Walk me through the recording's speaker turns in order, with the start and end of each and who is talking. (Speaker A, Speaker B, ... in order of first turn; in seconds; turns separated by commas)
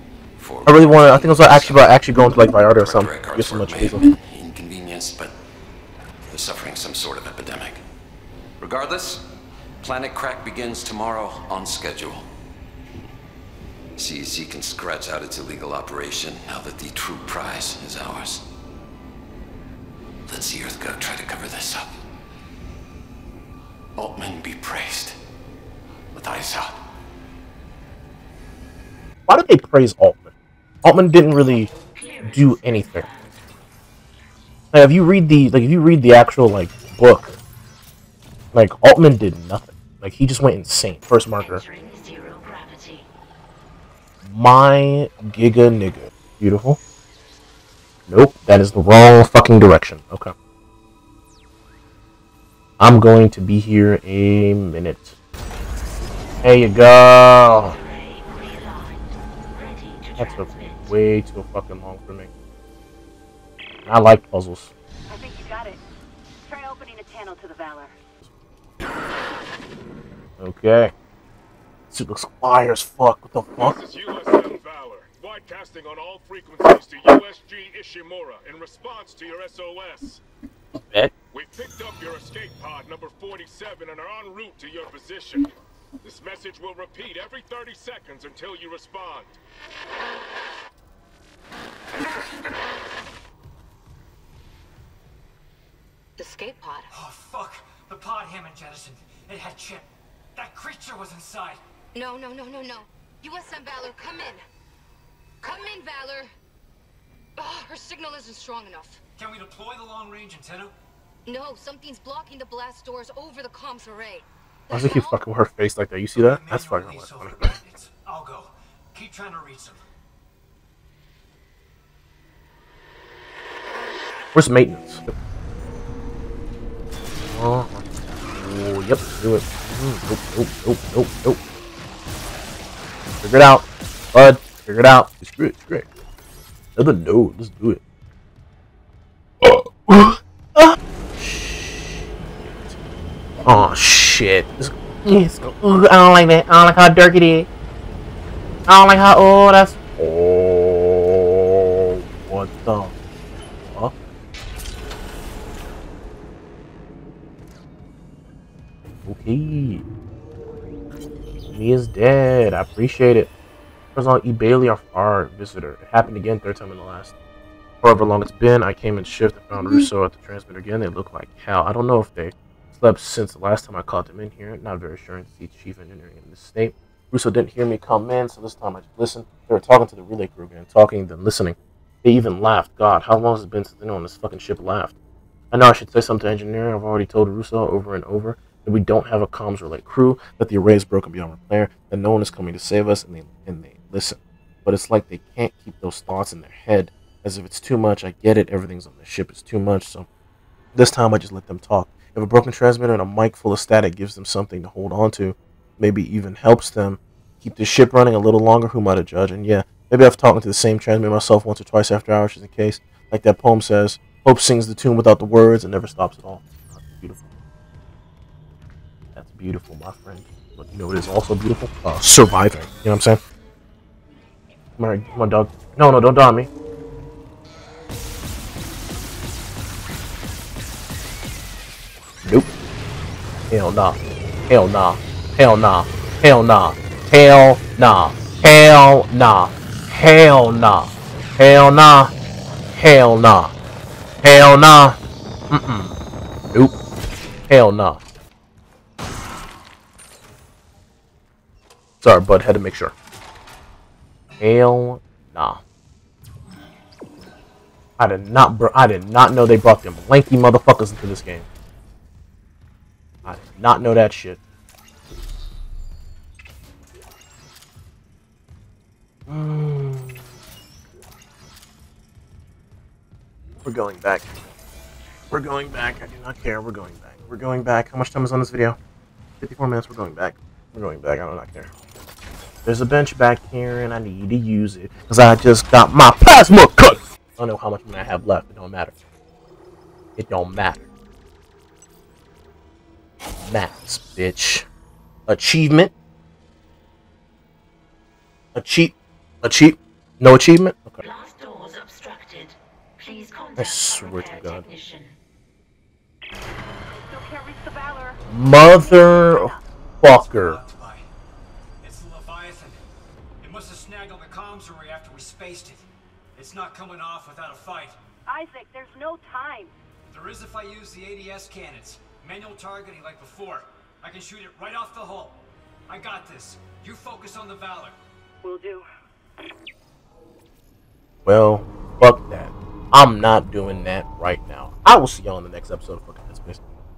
Speaker A: 0.4-2.0, Speaker B: 0.7-4.1, Speaker A: 2.7-5.4, Speaker A: 6.3-7.8, Speaker A: 8.6-9.3, Speaker A: 9.8-12.3, Speaker A: 14.0-18.5, Speaker A: 20.3-21.9, Speaker A: 23.9-25.2, Speaker A: 26.1-26.8, Speaker B: 29.3-30.3, Speaker B: 30.8-31.7, Speaker C: 31.7-33.4, Speaker B: 32.2-33.1, Speaker B: 34.7-37.4, Speaker B: 38.5-41.6, Speaker C: 41.3-43.0, Speaker B: 44.2-46.8, Speaker B: 48.1-50.3, Speaker B: 52.8-55.2, Speaker B: 56.4-57.8, Speaker C: 57.5-61.0, Speaker B: 60.2-62.3, Speaker B: 63.9-64.7, Speaker D: 65.1-65.8, Speaker D: 66.5-68.0, Speaker B: 70.4-70.9, Speaker B: 71.9-73.8, Speaker E: 73.6-80.2, Speaker E: 81.3-89.4, Speaker F: 96.2-96.9, Speaker G: 96.9-101.6, Speaker F: 101.9-104.4, Speaker F: 105.4-106.3, Speaker F: 107.4-109.0, Speaker G: 109.2-110.7, Speaker F: 111.3-115.2, Speaker B: 114.7-117.5, Speaker G: 116.2-119.8, Speaker B: 124.3-125.1, Speaker B: 127.3-131.4, Speaker B: 133.2-135.9, Speaker B: 136.8-137.8, Speaker B: 139.4-142.7, Speaker B: 143.4-147.5, Speaker B: 148.7-153.0, Speaker B: 153.6-153.9, Speaker B: 159.0-159.8, Speaker B: 161.5-163.3, Speaker B: 163.9-167.2, Speaker B: 167.8-185.0, Speaker B: 185.5-200.1, Speaker B: 200.7-217.3, Speaker B: 219.1-223.2, Speaker B: 224.8-226.5, Speaker B: 232.2-232.5, Speaker B: 233.5-242.1, Speaker B: 242.7-243.5, Speaker B: 244.2-245.0, Speaker B: 245.5-246.0, Speaker B: 247.5-248.0, Speaker B: 252.0-252.9, Speaker B: 254.4-255.6, Speaker B: 258.0-261.5, Speaker B: 263.2-264.4, Speaker B: 269.3-270.3, Speaker B: 273.6-274.4, Speaker B: 275.3-278.8, Speaker B: 279.4-281.7, Speaker B: 282.6-288.9, Speaker B: 290.1-290.9, Speaker B: 293.4-294.7, Speaker B: 295.3-295.9, Speaker B: 298.5-301.0, Speaker C: 301.0-305.1, Speaker B: 303.6-304.6, Speaker D: 306.9-308.2, Speaker B: 308.3-310.6, Speaker D: 308.7-309.6, Speaker G: 310.0-311.0, Speaker G: 311.8-312.8, Speaker G: 313.4-315.9, Speaker G: 316.4-318.0, Speaker D: 318.2-319.7, Speaker G: 320.1-328.0, Speaker D: 328.4-328.9, Speaker B: 331.2-336.6